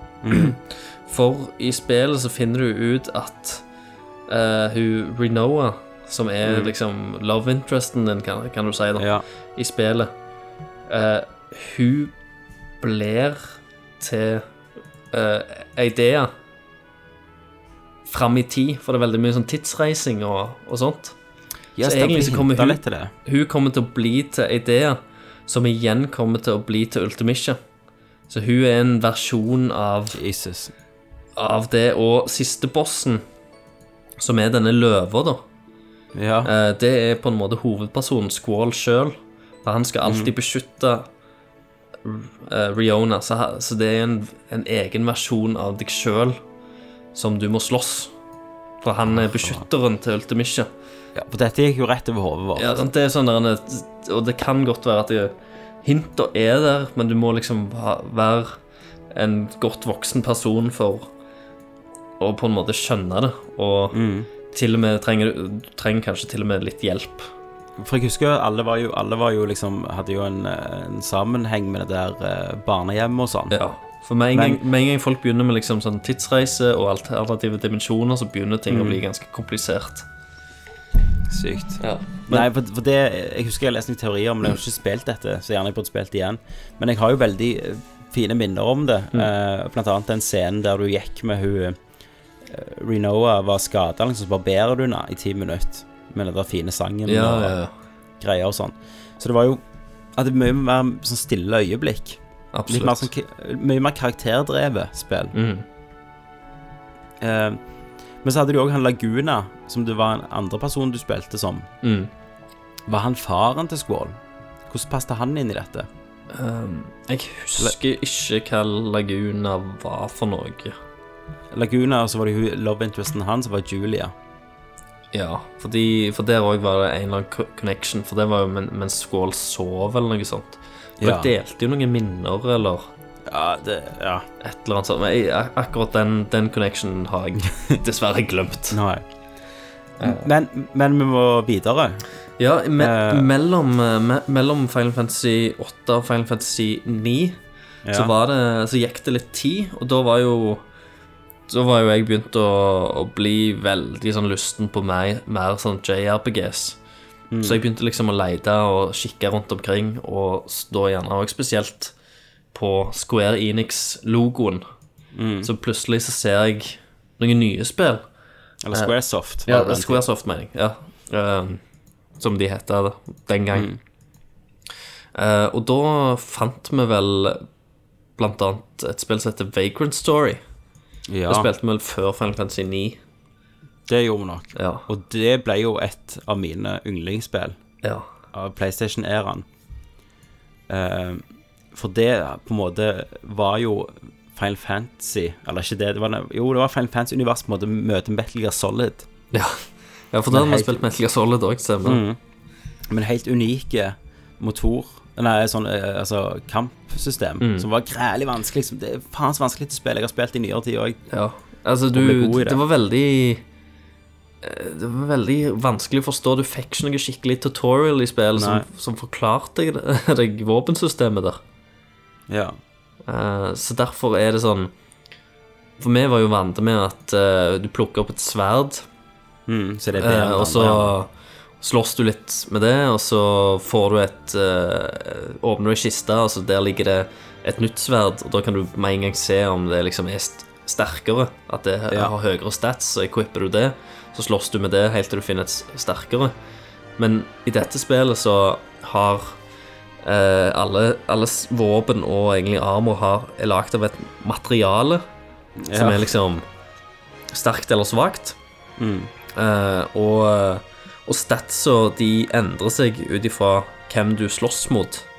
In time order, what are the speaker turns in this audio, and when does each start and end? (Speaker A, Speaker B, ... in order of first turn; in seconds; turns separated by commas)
Speaker A: 0.2-0.6, Speaker B: 0.3-3.6, Speaker B: 4.3-10.1, Speaker A: 6.4-6.7, Speaker A: 9.0-9.2, Speaker B: 10.9-12.1, Speaker B: 12.8-14.4, Speaker B: 15.1-16.3, Speaker B: 18.1-21.1, Speaker A: 21.8-23.1, Speaker B: 21.8-27.6, Speaker B: 28.3-30.2, Speaker A: 30.1-30.7, Speaker B: 31.4-33.2, Speaker B: 34.2-35.4, Speaker A: 36.1-36.5, Speaker B: 36.4-41.1, Speaker A: 40.0-40.3, Speaker B: 42.0-46.4, Speaker B: 47.1-48.1, Speaker B: 48.8-50.7, Speaker A: 49.1-49.6, Speaker A: 51.1-52.8, Speaker B: 52.5-58.6, Speaker B: 59.1-61.1, Speaker B: 62.2-67.3, Speaker A: 63.9-64.3, Speaker A: 67.8-73.6, Speaker B: 73.5-80.0, Speaker A: 74.3-74.6, Speaker A: 78.7-79.0, Speaker A: 81.3-91.8, Speaker B: 81.8-82.5, Speaker A: 92.4-97.6, Speaker B: 97.0-97.7, Speaker A: 98.2-99.6, Speaker A: 100.2-105.3, Speaker B: 102.5-103.1, Speaker B: 105.3-105.6, Speaker A: 107.2-107.6, Speaker A: 108.2-111.7, Speaker B: 111.8-112.1, Speaker A: 112.9-114.2, Speaker A: 114.7-115.9, Speaker B: 116.3-120.8, Speaker A: 121.5-124.1, Speaker B: 125.1-132.9, Speaker A: 131.0-131.3, Speaker A: 133.3-134.2, Speaker B: 134.4-138.8, Speaker A: 138.7-139.0, Speaker B: 140.0-140.2, Speaker A: 140.0-142.0, Speaker B: 142.4-147.4, Speaker A: 142.8-143.3, Speaker A: 147.8-148.1, Speaker B: 147.9-150.6, Speaker B: 151.5-156.8, Speaker A: 157.3-157.6, Speaker B: 157.4-161.9, Speaker B: 162.5-164.6, Speaker A: 165.1-165.5, Speaker B: 165.4-168.0, Speaker A: 168.6-170.0, Speaker B: 169.4-171.6, Speaker B: 172.2-173.7, Speaker A: 173.5-173.8, Speaker B: 175.1-177.4, Speaker B: 178.2-180.4, Speaker A: 181.1-181.5, Speaker B: 181.3-183.0, Speaker A: 183.9-187.5, Speaker B: 184.5-184.8, Speaker A: 188.3-189.4, Speaker A: 190.7-199.1, Speaker B: 199.3-202.0, Speaker A: 200.3-200.8, Speaker A: 201.8-202.2, Speaker A: 202.9-211.0, Speaker B: 207.4-207.7, Speaker B: 211.1-213.4, Speaker A: 211.9-212.6, Speaker B: 214.4-221.4, Speaker A: 218.3-218.7, Speaker A: 222.3-222.6, Speaker B: 223.1-224.7, Speaker B: 225.8-228.8, Speaker A: 229.5-230.9, Speaker B: 230.0-246.3, Speaker B: 247.0-249.4, Speaker B: 250.0-255.0, Speaker A: 255.6-256.1, Speaker B: 255.7-256.4, Speaker B: 257.3-258.4, Speaker A: 258.8-259.1, Speaker B: 259.3-265.1